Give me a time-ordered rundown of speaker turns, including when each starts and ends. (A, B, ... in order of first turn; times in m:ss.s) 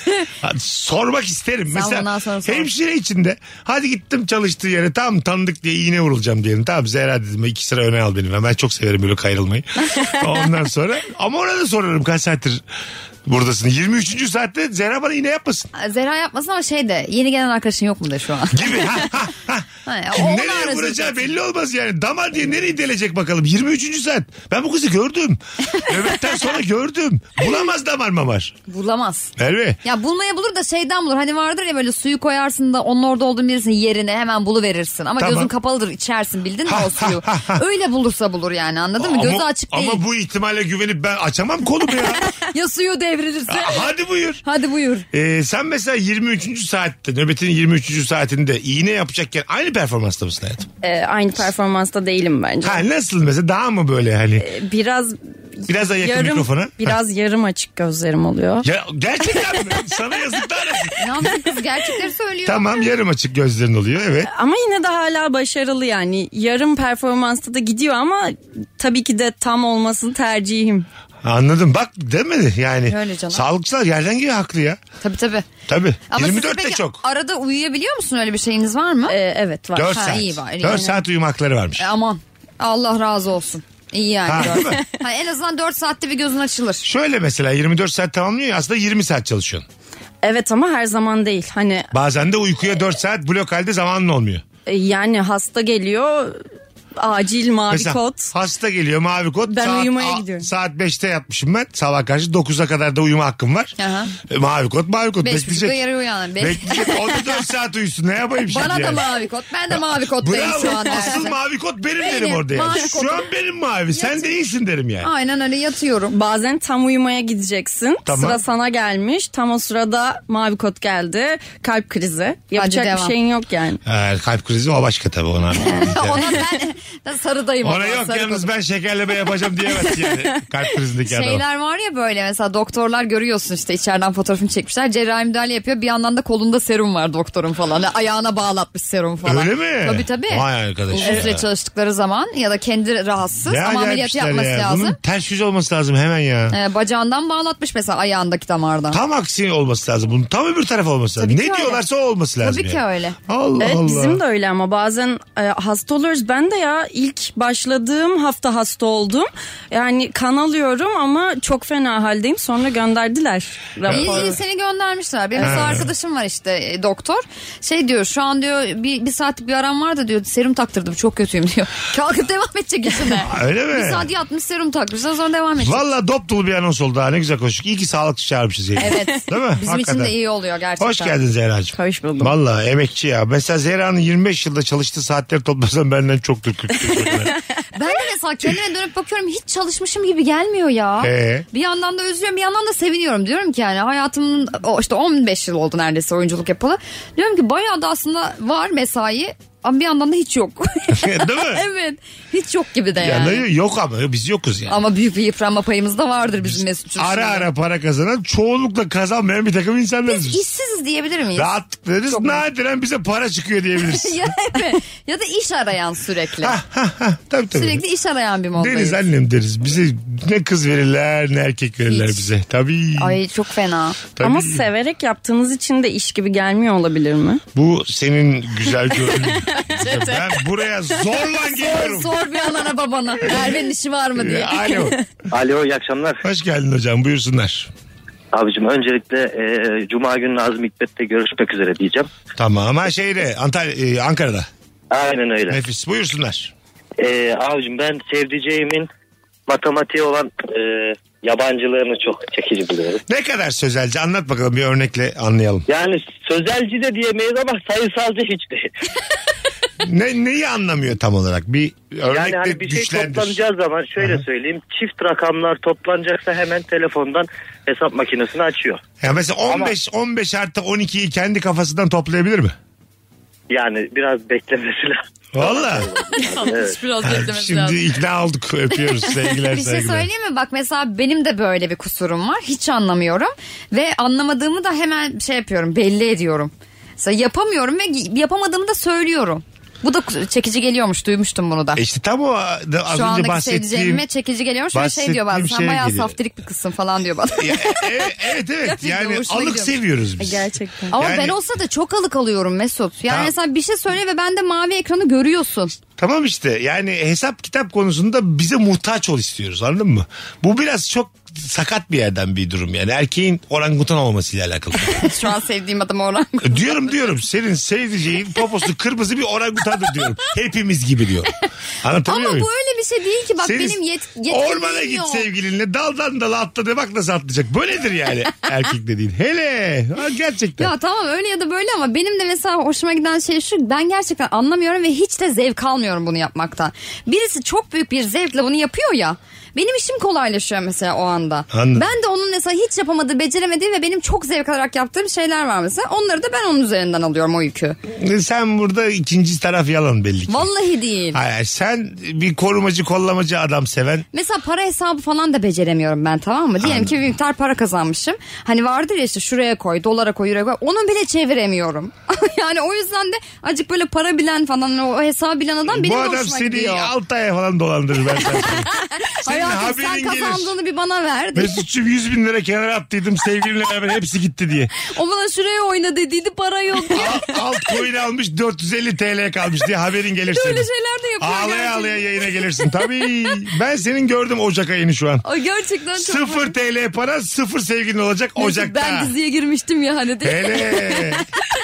0:00.4-0:12.6 A
0:01.7-0:02.7 B
0:13.3-0:15.7 A
0:15.8-0:18.7 B
0:18.5-0:28.6 A
0:19.9-0:21.3 B
0:28.7-0:29.3 B
0:29.4-0:29.8 A
0:29.8-0:40.0 B
0:35.2-0:35.5 A
0:36.7-0:37.6 A
0:39.0-0:42.3 A
0:42.4-0:43.9 B
0:43.5-0:44.4 A
0:44.4-0:45.1 B
0:45.1-0:50.7 A
0:50.8-0:52.8 C
0:52.6-0:54.5 A
0:54.4-0:58.7 C
0:55.7-0:57.0 A
0:58.6-1:01.4 A
1:01.0-1:02.8 B
1:02.4-1:04.3 A
1:04.3-1:10.9 C
1:11.2-1:14.8 A
1:12.9-1:13.4 B
1:15.0-1:15.5 B
1:15.7-1:17.0 A
1:16.1-1:19.2 B
1:19.1-1:20.1 C
1:19.8-1:21.9 A
1:19.9-1:21.0 B
1:21.8-1:26.8 B
1:24.3-1:24.8 A
1:26.8-1:29.7 A
1:30.2-1:31.9 C
1:31.9-1:34.4 A
1:34.7-1:36.4 C
1:37.0-1:38.3 C
1:37.7-1:45.8 A
1:39.5-1:40.5 C
1:43.8-1:44.1 B
1:45.2-1:47.2 B
1:46.4-1:49.1 A
1:48.5-1:51.4 B
1:49.7-1:55.1 A
1:52.0-1:53.3 B
1:53.9-1:54.3 B
1:55.0-1:56.1 B
1:56.1-2:03.8 C
1:58.1-1:58.4 A
2:02.6-2:03.1 B
2:03.8-2:06.4 A
2:05.6-2:08.5 B
2:07.6-2:11.4 A
2:11.1-2:25.0 B
2:19.2-2:21.4 A
2:21.0-2:21.3 C
2:23.5-2:26.6 A
2:26.5-2:29.0 B
2:28.9-2:34.2 A
2:31.2-2:31.8 B
2:32.4-2:33.2 B
2:33.6-2:44.4 C
2:43.8-2:44.3 A
2:43.9-2:55.8 B
2:45.4-2:45.9 A
2:53.2-2:54.1 A
2:55.6-3:00.2 A
2:58.8-3:01.2 B
3:00.8-3:07.4 A
3:01.7-3:02.3 C
3:07.8-3:23.4 B
3:11.0-3:11.5 A
3:20.9-3:21.6 A
3:23.0-3:24.8 A
3:24.7-3:27.5 B
3:26.4-3:30.4 A
3:30.1-3:31.5 B
3:31.4-3:34.3 A
3:32.1-3:32.4 B
3:33.8-3:36.6 B
3:36.4-3:37.8 A
3:37.5-3:39.0 B
3:38.6-3:43.2 A
3:41.9-3:42.2 B
3:43.0-3:44.0 B
3:44.2-3:44.6 A
3:44.2-3:47.4 C
3:47.6-3:52.2 A
3:51.4-3:54.8 B
3:53.3-3:53.5 A
3:54.2-3:55.0 A
3:55.3-3:56.2 D
3:56.2-3:57.7 A
3:58.3-4:02.1 D
4:02.4-4:04.5 A
4:04.9-4:05.6 D
4:05.5-4:06.5 A
4:07.0-4:08.9 D
4:09.5-4:13.0 D
4:13.1-4:15.7 A
4:15.7-4:18.7 D
4:19.8-4:23.4 A
4:22.1-4:28.8 D
4:29.0-4:32.6 A
4:33.5-4:36.8 D
4:35.3-4:35.9 A
4:36.1-4:37.8 B
4:37.0-4:40.1 A
4:38.9-4:51.8 B
4:51.8-4:54.0 A
4:52.9-4:57.9 B
4:54.7-4:56.2 A
4:57.4-5:01.4 A
4:58.6-4:59.7 B
5:00.2-5:01.0 C
5:00.9-5:05.8 B
5:06.0-5:15.1 A
5:14.9-5:17.0 B
5:16.4-5:22.5 A
5:22.1-5:25.3 B
5:23.4-5:30.7 A
5:30.6-5:47.8 B
5:41.5-5:41.9 A
5:47.9-5:50.5 A
5:50.3-5:51.2 B
5:51.1-5:54.1 A
5:54.1-6:06.9 B
5:56.6-5:57.0 A
6:05.7-6:08.7 A
6:08.4-6:11.6 B
6:09.2-6:10.5 A
6:11.4-6:14.7 A
6:14.8-6:17.7 B
6:16.9-6:20.7 A
6:20.3-6:22.7 B
6:21.2-6:25.2 A
6:25.2-6:26.5 B
6:26.0-6:29.1 A
6:28.4-6:31.2 B
6:30.2-6:31.3 A